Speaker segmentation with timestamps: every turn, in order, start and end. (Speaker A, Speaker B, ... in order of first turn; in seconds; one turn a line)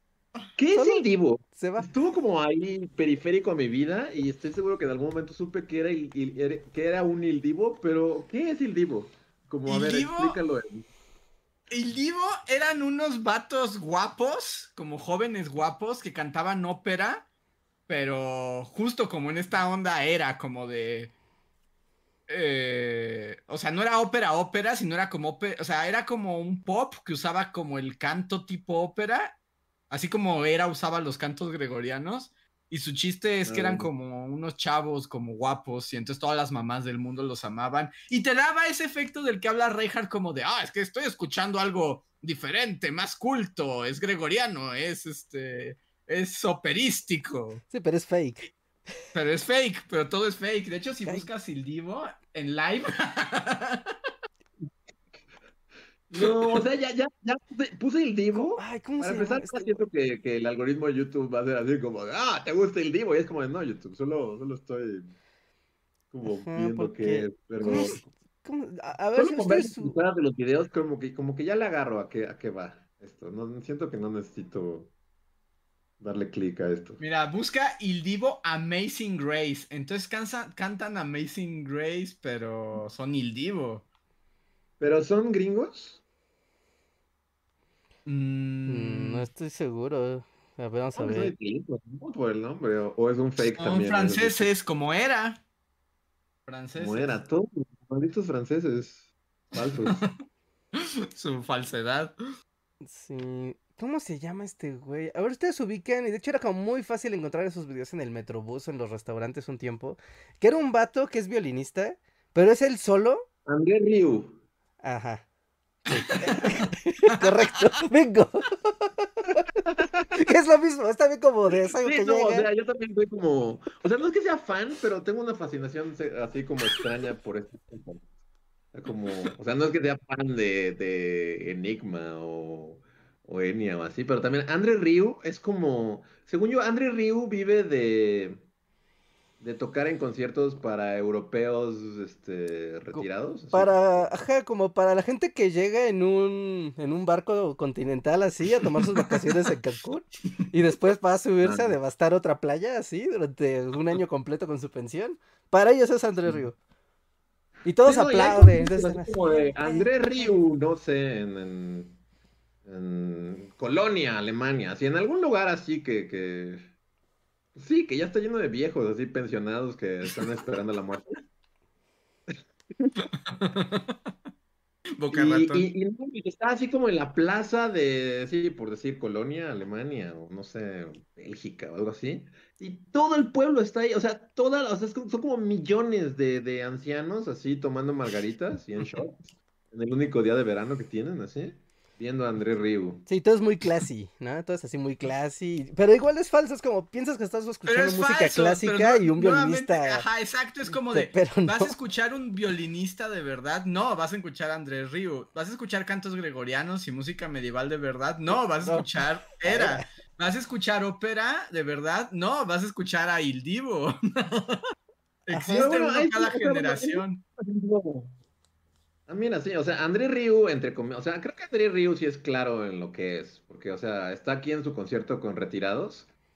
Speaker A: 0.6-10.9
Speaker B: 0.7-1.9
Speaker C: 9.7-10.4
Speaker C: 11.7-17.2
Speaker C: 17.9-21.1
Speaker C: 22.3-29.4
Speaker C: 29.9-47.6
Speaker A: 33.4-33.9
Speaker B: 47.7-48.5
Speaker C: 49.1-53.9
Speaker A: 56.1-65.1
Speaker C: 56.2-56.6
Speaker B: 58.3-59.8
Speaker A: 66.1-68.0
Speaker B: 66.2-70.0
Speaker C: 67.7-68.0
Speaker A: 69.2-74.9
Speaker A: 76.0-77.0
Speaker C: 77.0-83.8
Speaker A: 84.8-86.0
Speaker C: 88.0-89.2
Speaker B: 88.7-91.3
Speaker A: 90.9-94.5
Speaker C: 93.4-95.4
Speaker C: 96.5-97.2
Speaker A: 96.8-100.0
Speaker C: 99.6-100.1
Speaker C: 100.7-102.1
Speaker B: 102.8-113.2
Speaker A: 113.5-114.4
Speaker B: 114.8-115.2
Speaker B: 115.9-119.4
Speaker A: 119.7-120.1
Speaker B: 120.1-122.5
Speaker A: 121.5-128.1
Speaker A: 128.7-138.4
Speaker A: 139.4-144.1
Speaker B: 142.9-156.6
Speaker A: 151.4-151.8
Speaker B: 157.6-160.2
Speaker A: 157.8-162.0
Speaker A: 162.6-166.7
Speaker A: 167.5-171.2
Speaker A: 172.3-172.9
Speaker C: 173.2-174.0
Speaker C: 175.0-175.6
Speaker A: 175.1-193.1
Speaker B: 193.1-200.1
Speaker C: 197.7-214.6
Speaker B: 200.7-201.7
Speaker B: 209.4-209.8
Speaker C: 215.3-217.2
Speaker B: 215.3-215.7
Speaker A: 215.5-218.1
Speaker A: 219.1-226.1